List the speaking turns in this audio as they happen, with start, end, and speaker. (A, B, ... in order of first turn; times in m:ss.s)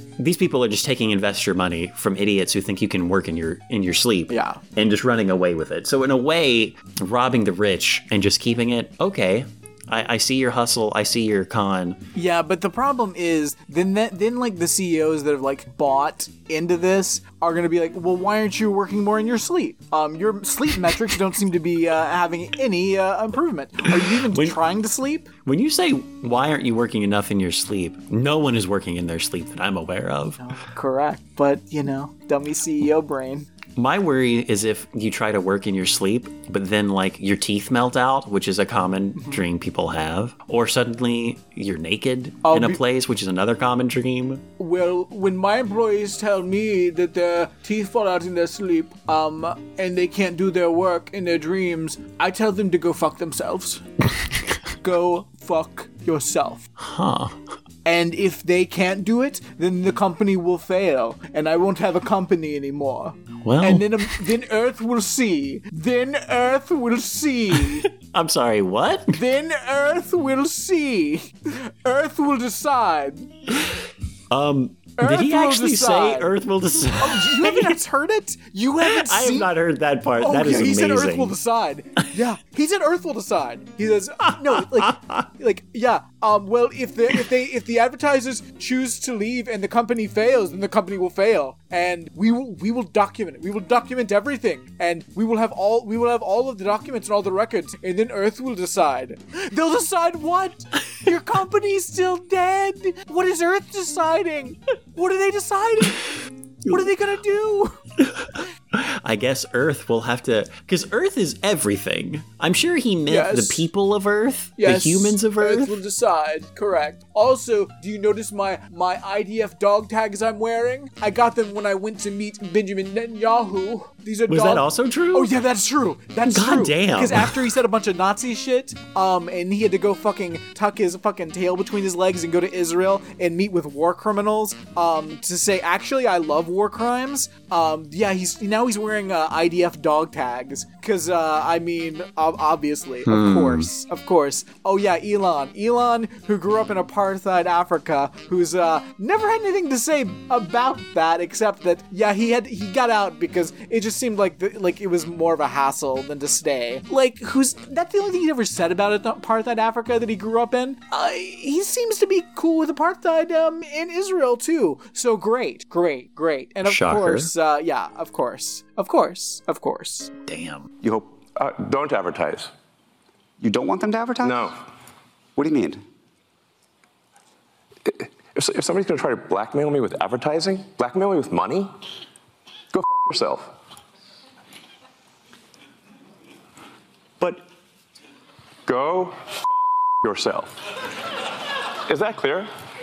0:00.2-0:12.0 A
0:04.3-0:04.6 B
0:12.1-0:25.3 B
0:24.0-0:24.6 A
0:25.4-0:30.4 A
0:30.4-0:33.5 B
0:33.8-0:44.4 A
0:42.4-0:42.8 B
0:44.6-0:53.9 B
0:54.8-0:56.6 B
0:56.8-0:57.4 A
0:57.8-1:07.8 B
1:03.4-1:04.2 A
1:07.5-1:09.2 A
1:09.1-1:13.3 B
1:14.3-1:17.8 A
1:15.0-1:16.3 B
1:17.0-1:19.5 B
1:18.8-1:21.3 A
1:20.2-1:46.1 B
1:46.6-1:47.8 B
1:48.2-1:55.7 A
1:53.1-1:53.6 B
1:54.6-2:50.1 B
2:04.3-2:05.3 A
2:06.2-2:07.4 A
2:23.0-2:23.7 A
2:46.6-2:47.3 A
2:50.3-2:50.7 A
2:50.8-2:51.1 C
2:51.4-2:52.5 D
2:53.4-2:54.5 C
2:54.2-2:54.5 D
2:55.4-2:55.8 C
2:57.9-3:01.7 D
3:02.7-3:03.5 D
3:08.6-3:09.4 D
3:10.0-3:10.6 D
3:11.9-3:12.5 D